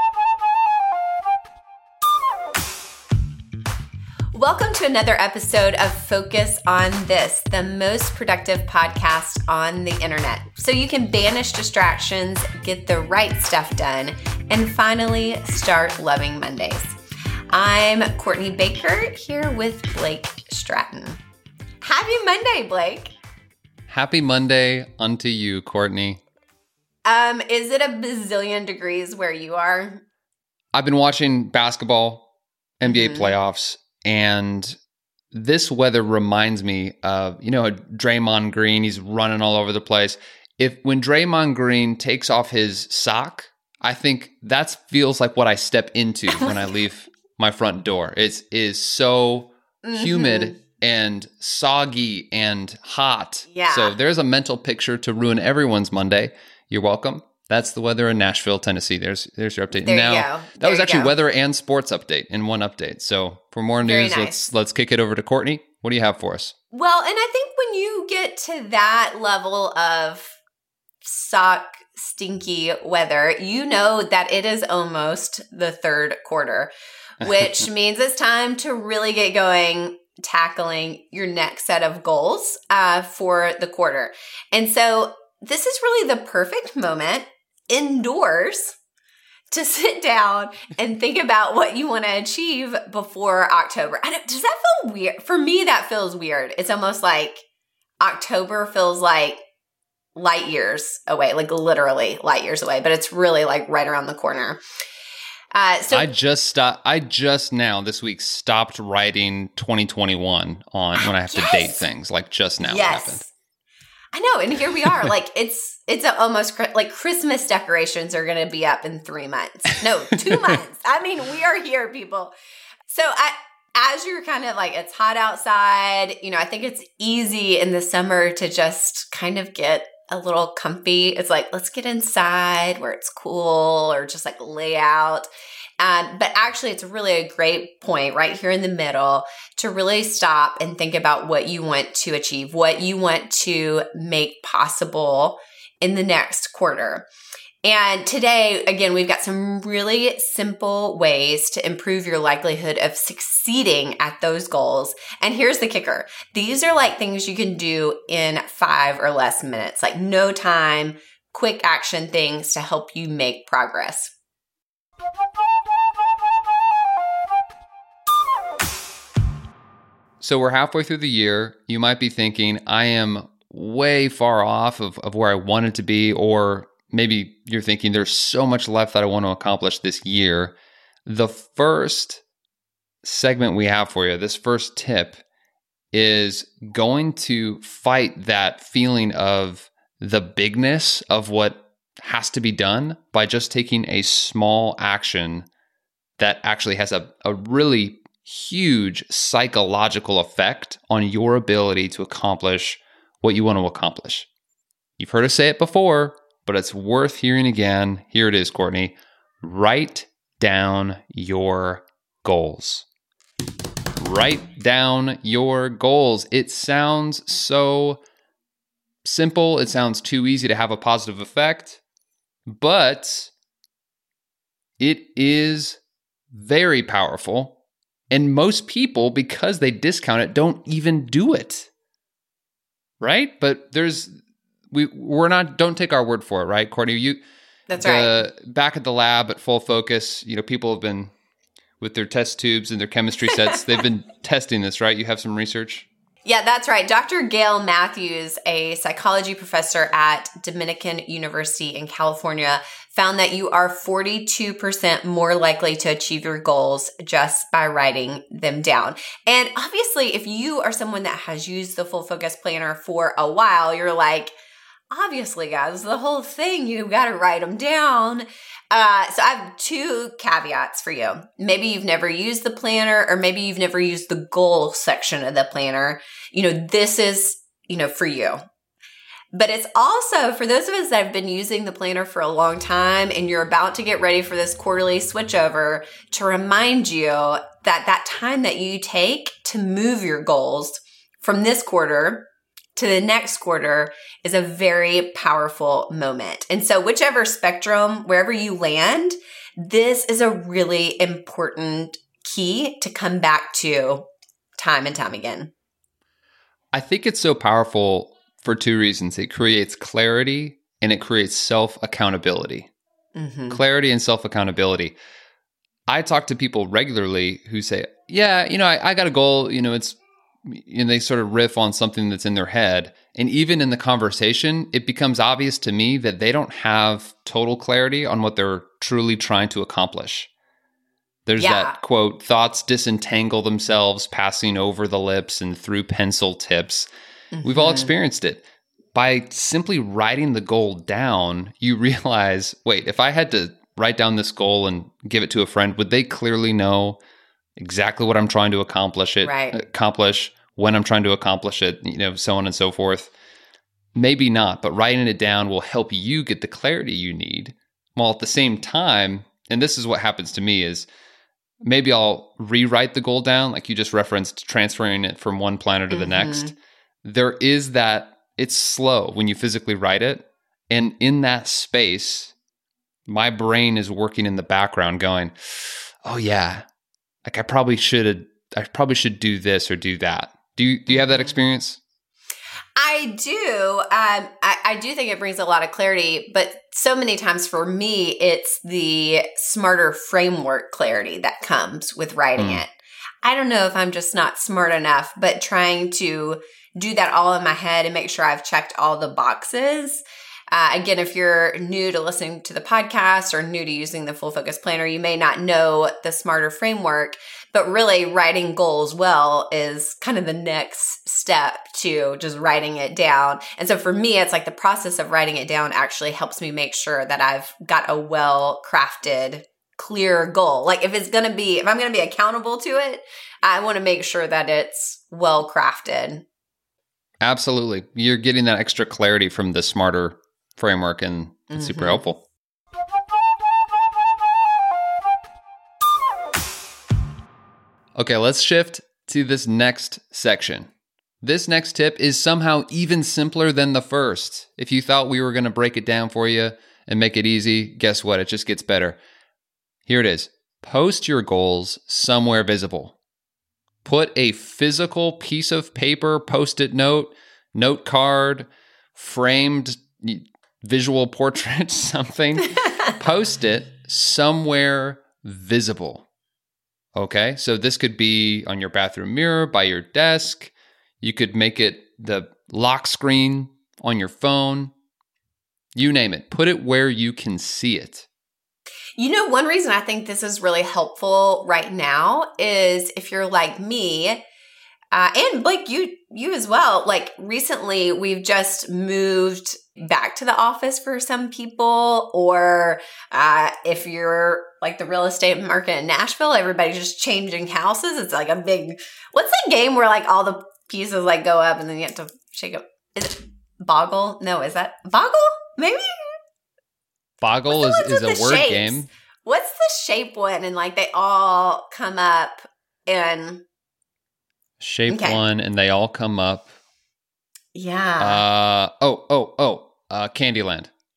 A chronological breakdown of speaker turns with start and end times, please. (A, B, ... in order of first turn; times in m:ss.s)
0:04.3-0:17.0 A
0:17.5-0:21.2 A
0:21.8-0:23.1 A
0:23.9-0:26.2 B
0:27.0-0:30.0 A
0:30.7-0:32.3 B
0:32.8-0:34.8 B
0:32.8-0:33.4 A
0:35.3-1:06.5 B
0:49.8-0:50.6 A
0:53.5-0:54.0 A
0:59.8-1:01.1 A
1:03.8-1:04.5 A
1:06.7-1:10.4 A
1:11.0-1:28.8 A
1:17.2-1:17.5 B
1:29.5-1:37.4 A
1:38.0-1:39.4 A
1:40.2-1:44.6 A
1:45.5-1:46.1 A
1:45.9-1:53.2 B
1:51.0-1:51.8 A
1:52.6-1:53.3 A
1:54.1-2:02.3 A
2:00.2-2:00.5 B
2:02.9-2:15.3 A
2:15.8-2:27.1 A
2:27.6-2:44.1 A
2:50.2-3:00.5 B
3:01.1-3:02.2 B
3:03.0-3:05.2 B
3:05.9-3:15.5 B
3:16.2-3:24.3 B
3:25.0-3:32.9 B
3:34.0-3:38.0 B
3:39.0-3:41.8 B
3:42.5-3:43.3 B
3:44.8-3:45.8 B
3:46.3-3:47.6 B
3:48.1-3:51.7 B
3:53.0-3:54.2 B
3:54.7-3:57.2 B
3:57.7-3:58.3 A
3:57.8-4:01.1 B
4:01.8-4:05.9 B
4:06.2-4:24.3 A
4:24.9-4:38.4 A
4:39.3-5:05.5 A
5:06.7-5:12.7 B
5:13.2-5:13.6 A
5:13.5-5:15.0 B
5:15.9-5:30.3 B
5:31.3-5:36.9 B
5:31.4-5:31.8 A
5:37.3-5:37.9 A
5:37.4-5:38.4 B
5:39.0-5:47.0 B
5:47.6-5:53.1 B
5:49.2-5:49.6 A
5:54.0-6:00.9 B
6:01.6-6:12.3 B
6:05.9-6:06.5 A
6:13.1-6:16.7 B
6:17.2-6:21.8 B
6:20.9-6:21.3 A
6:22.8-6:32.7 A
6:32.4-6:32.6 B
6:33.2-7:06.2 A
7:07.2-7:12.2 B
7:11.5-7:12.1 A
7:18.0-7:20.7 B
7:21.2-7:29.0 B
7:29.9-7:33.0 B
7:33.8-7:46.0 B
7:47.0-7:54.7 B
7:55.8-7:58.0 B
7:59.0-8:04.2 A
8:04.9-8:26.1 A
8:27.2-8:28.9 B
8:27.5-8:33.4 A
8:34.6-8:36.5 B
8:34.9-8:35.2 A
8:37.5-8:38.2 A
8:38.0-8:40.7 B